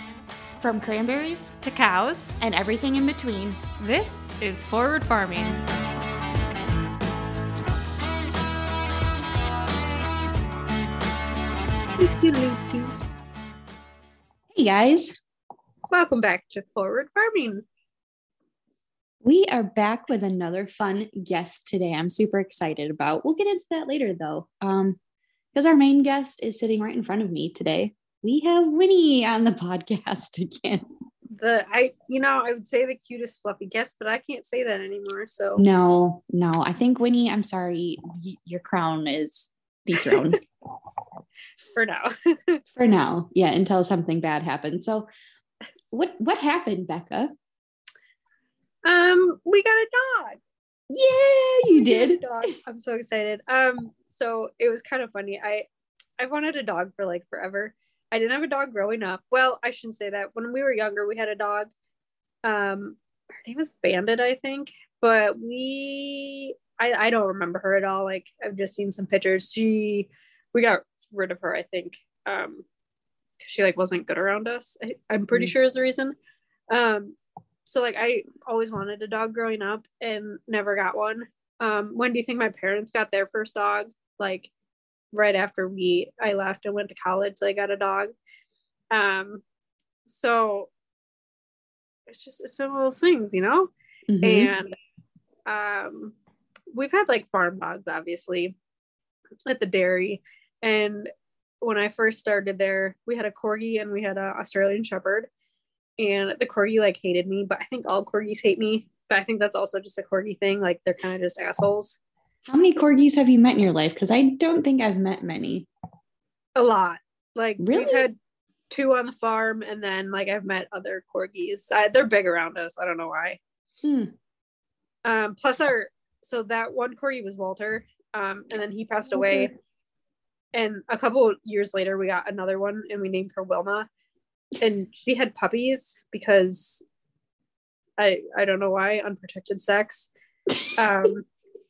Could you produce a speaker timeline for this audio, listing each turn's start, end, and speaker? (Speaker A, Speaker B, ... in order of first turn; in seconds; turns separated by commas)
Speaker A: 0.6-1.5, Speaker B: 1.4-2.4, Speaker A: 2.4-3.6, Speaker B: 3.8-5.6, Speaker C: 12.0-12.9, Speaker A: 14.5-15.2, Speaker C: 15.9-17.6, Speaker A: 19.2-25.0, Speaker A: 25.5-30.9, Speaker C: 31.3-35.6, Speaker A: 35.6-40.4, Speaker C: 41.7-42.6, Speaker A: 42.8-45.1, Speaker A: 45.9-47.3, Speaker C: 48.8-50.4, Speaker A: 50.9-52.5, Speaker C: 51.7-55.6, Speaker C: 56.2-61.7, Speaker C: 62.4-72.6, Speaker C: 73.4-76.2, Speaker C: 76.7-84.5, Speaker C: 85.1-88.1, Speaker C: 88.9-89.4, Speaker C: 90.1-90.7, Speaker C: 92.1-93.7, Speaker A: 94.1-94.5, Speaker C: 94.2-94.7, Speaker C: 95.5-96.1, Speaker C: 96.7-98.5, Speaker C: 99.5-101.1, Speaker C: 101.6-105.3, Speaker C: 106.0-112.0, Speaker A: 112.5-115.7, Speaker C: 116.5-118.2, Speaker A: 117.6-118.1, Speaker C: 118.7-123.4, Speaker A: 123.8-124.1, Speaker C: 125.0-129.5, Speaker A: 129.1-129.5, Speaker C: 130.5-133.9, Speaker C: 134.6-136.8, Speaker C: 138.0-140.1, Speaker C: 140.8-141.3